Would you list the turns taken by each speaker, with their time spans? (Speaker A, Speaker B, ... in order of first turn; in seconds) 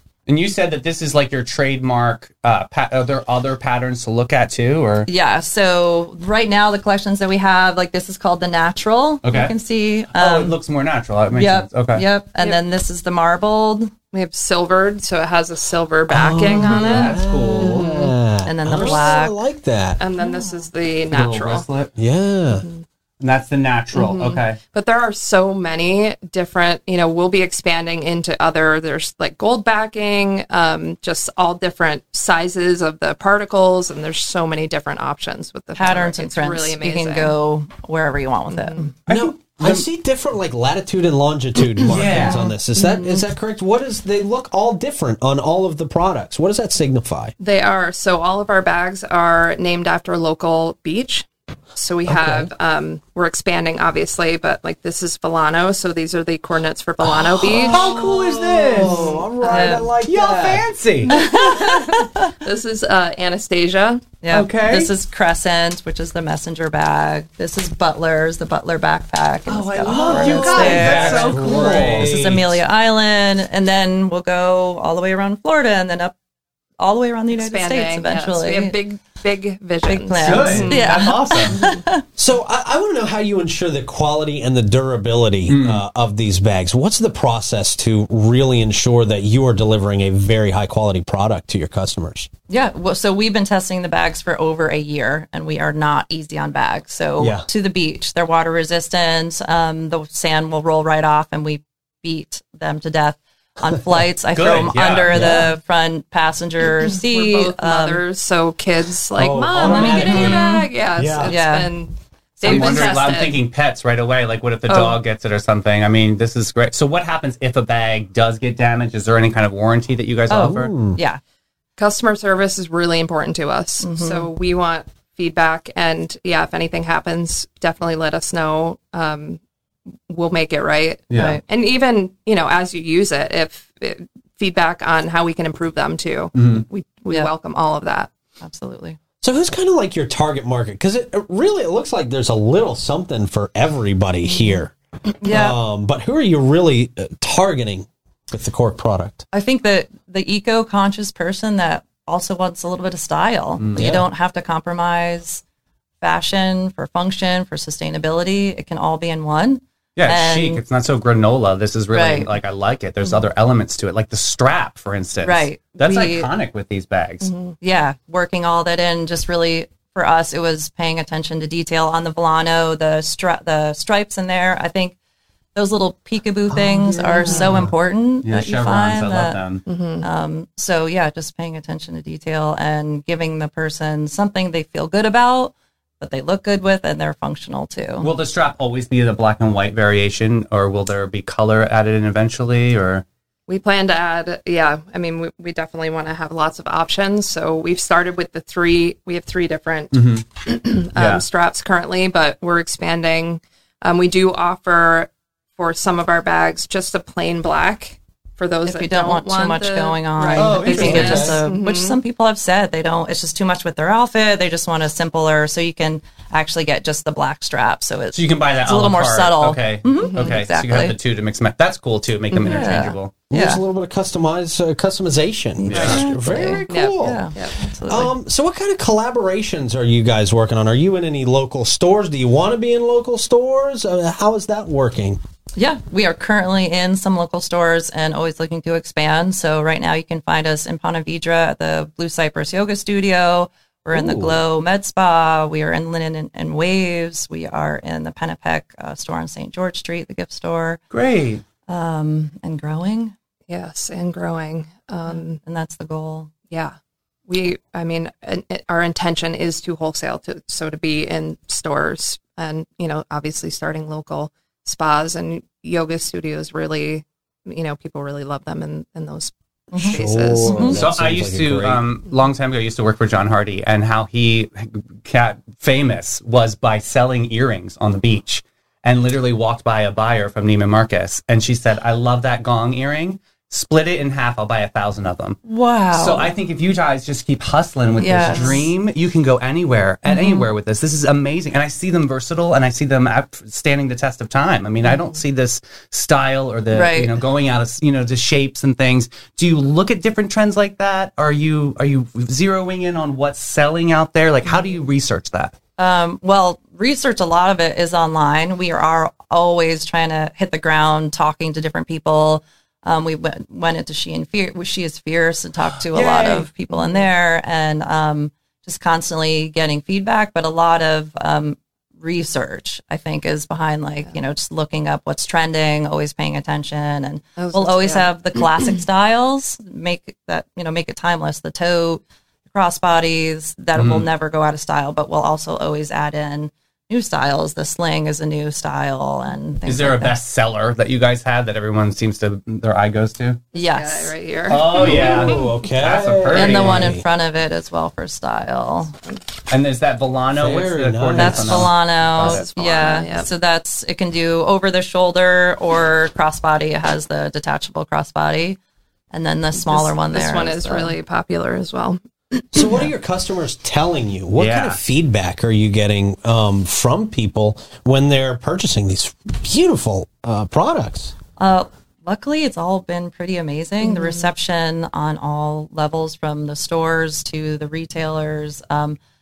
Speaker A: 0.3-5.1, 9.2-9.6, 10.1-12.1, 16.5-17.9, 21.1-21.9, 23.2-24.6, 39.1-39.9, 41.8-42.5, 57.4-59.2, 60.0-61.2, 64.3-64.9, 69.5-72.1, 80.2-81.6, 85.5-85.8, 104.3-105.2, 112.4-120.7, 131.1-131.4, 136.3-136.7, 153.6-153.9, 160.0-167.3, 177.3-177.7, 178.2-179.6, 188.0-193.0, 199.9-200.2, 200.9-201.2, 210.3-211.4, 218.1-223.1, 225.7-226.1, 250.9-251.4, 270.7-285.4, 285.9-305.6, 315.9-316.5, 333.8-334.1, 339.7-343.4, 344.5-346.9, 349.5-352.5, 364.4-364.8
Speaker B: 5.1-10.6, 11.3-13.9, 18.4-19.4, 35.8-38.9, 42.3-42.5, 59.4-59.9, 61.1-62.3, 64.2-76.2, 76.8-78.8, 79.8-82.0, 92.5-108.0, 109.6-110.7, 111.2-111.7, 112.4-113.0, 120.3-121.2, 123.8-124.3, 131.2-131.4, 138.4-139.0, 144.3-144.6, 145.2-145.6, 149.3-155.4, 156.0-160.6, 161.9-162.3, 165.2-166.3, 167.6-174.9, 175.6-179.4, 180.0-188.1, 208.7-220.9, 222.3-223.6, 225.6-228.1, 235.6-250.8, 251.7-253.1, 255.1-256.3, 269.7-270.8, 285.4-286.3, 288.0-288.7, 290.1-290.5, 296.7-297.1, 305.8-340.2, 343.5-344.1, 346.3-348.9, 351.1-358.6, 359.1-360.9, 371.4-379.0
Speaker C: 14.1-18.1, 20.0-21.6, 22.6-22.8, 23.9-37.3, 38.5-38.9, 42.8-43.3, 47.4-57.9, 58.8-59.2, 61.1-64.0, 77.3-81.8, 106.8-113.4, 114.7-115.0, 121.8-129.4, 130.1-138.1, 167.3-167.6, 177.0-177.6, 179.7-180.1, 193.5-212.0, 220.0-220.4, 226.7-227.6, 253.5-255.4, 256.5-256.8, 257.3-270.8, 288.2-288.6, 316.7-317.1, 327.4-328.1, 343.5-345.5, 352.0-353.3, 359.6-362.9, 373.8-374.3
Speaker D: 16.1-20.0, 22.0-22.7, 39.1-47.3, 52.0-52.5, 57.0-60.7, 69.8-72.6, 82.2-92.3, 97.2-97.5, 105.1-105.5, 109.2-111.3, 120.3-121.0, 139.2-144.7, 145.2-149.2, 153.8-154.1, 176.5-177.7, 210.3-211.4, 223.3-227.2, 227.9-235.2, 243.9-244.4, 269.9-271.8, 344.7-347.1, 350.3-351.7, 362.5-371.1